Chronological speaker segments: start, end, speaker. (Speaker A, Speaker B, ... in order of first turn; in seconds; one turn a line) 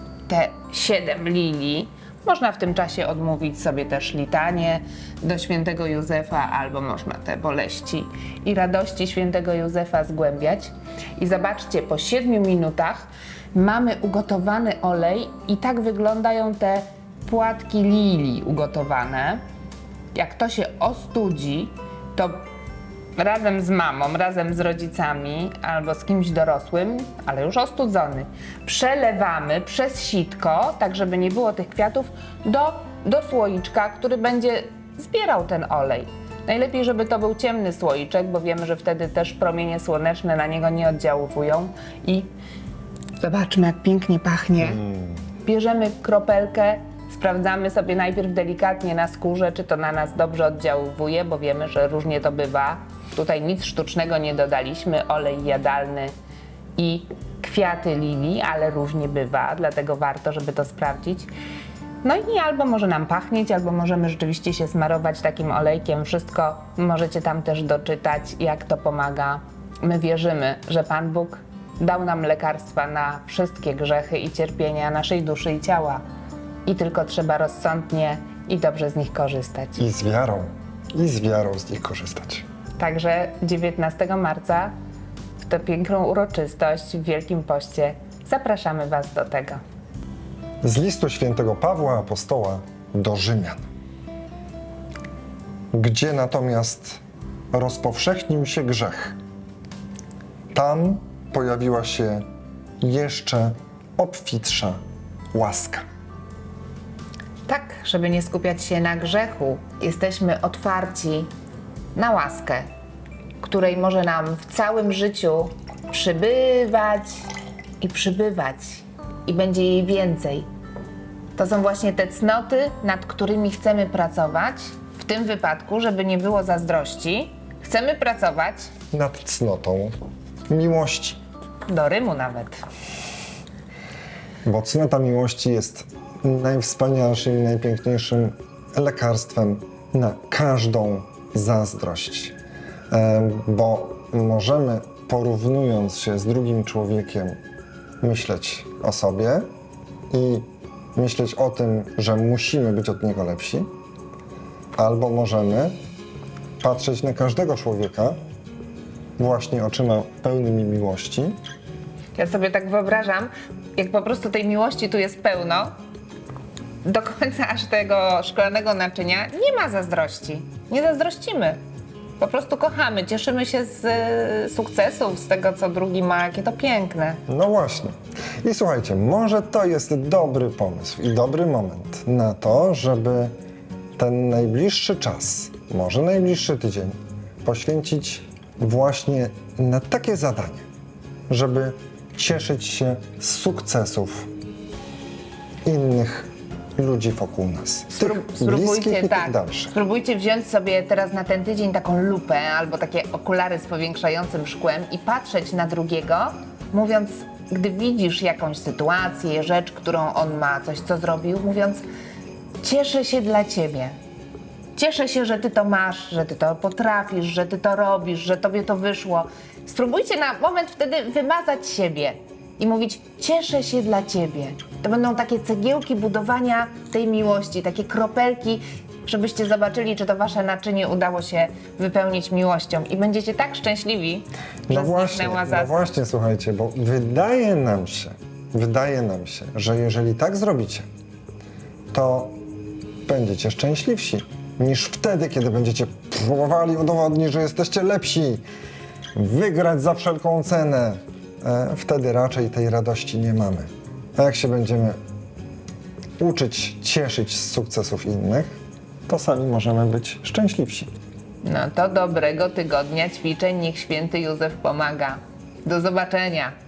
Speaker A: 0.3-19.4
Speaker A: 20.1-22.4
Speaker A: 23.2-42.3
Speaker A: 43.2-44.8
Speaker B: 44.6-45.2
Speaker A: 45.5-56.1
Speaker A: 56.8-61.3
Speaker A: 62.0-76.0
Speaker A: 76.7-79.8
Speaker B: 79.8-82.5
Speaker A: 82.8-84.7
Speaker A: 85.4-89.6
Speaker B: 90.6-93.6
Speaker B: 95.7-97.0
Speaker B: 97.5-99.2
Speaker B: 100.5-102.2
Speaker B: 102.8-104.8
Speaker B: 105.3-105.8
Speaker A: 107.5-111.3
Speaker A: 112.0-112.6
Speaker A: 113.4-117.3
Speaker A: 117.8-120.5
Speaker A: 121.3-128.7
Speaker B: 128.9-129.9
Speaker B: 130.5-131.2
Speaker A: 131.7-132.6
Speaker B: 134.4-142.3
Speaker B: 142.9-147.4
Speaker B: 148.0-149.5
Speaker B: 150.1-153.7
Speaker B: 154.8-155.8
Speaker B: 156.6-158.2
Speaker B: 159.2-161.3
Speaker A: 162.2-165.7
Speaker A: 166.8-171.6
Speaker A: 172.2-177.2
Speaker B: 177.3-183.3
Speaker B: 184.0-190.6
Speaker B: 191.3-194.3
Speaker B: 195.7-199.7
Speaker A: 197.9-211.8
Speaker A: 212.6-214.0
Speaker A: 214.8-235.8
Speaker B: 234.7-240.9
Speaker B: 241.9-242.4
Speaker B: 243.1-248.4
Speaker B: 249.2-255.0
Speaker B: 256.2-258.5
Speaker B: 259.1-260.9
Speaker A: 261.4-266.5